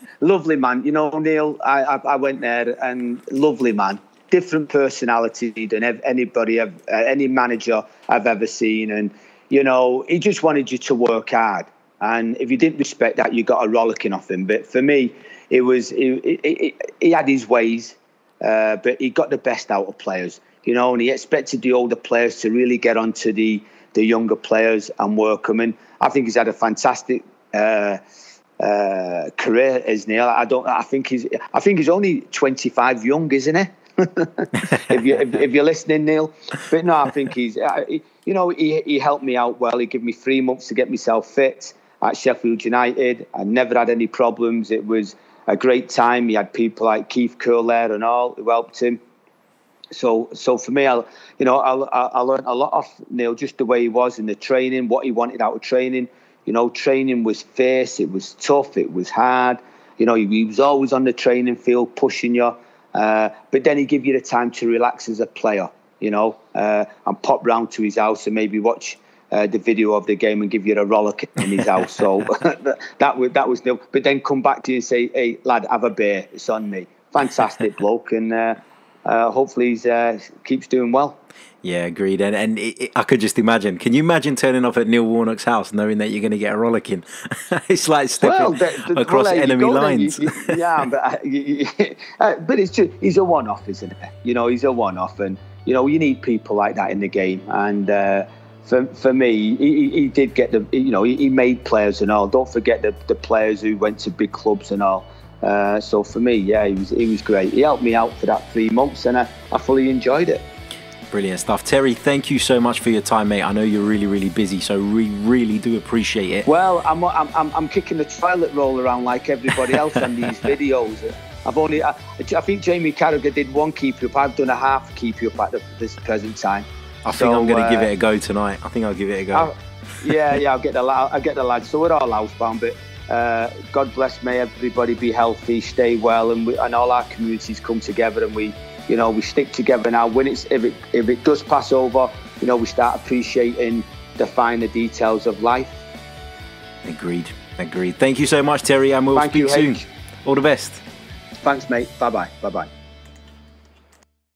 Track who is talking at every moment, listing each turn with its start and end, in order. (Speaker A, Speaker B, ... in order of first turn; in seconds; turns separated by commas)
Speaker A: 0.2-28.0, Speaker A: 28.6-49.0, Speaker A: 49.9-81.2, Speaker B: 81.6-90.8, Speaker A: 88.2-110.4, Speaker B: 111.1-116.5, Speaker A: 116.5-127.9, Speaker B: 127.0-129.5, Speaker A: 129.3-145.8, Speaker B: 146.8-150.8, Speaker A: 149.1-149.8, Speaker A: 151.4-152.7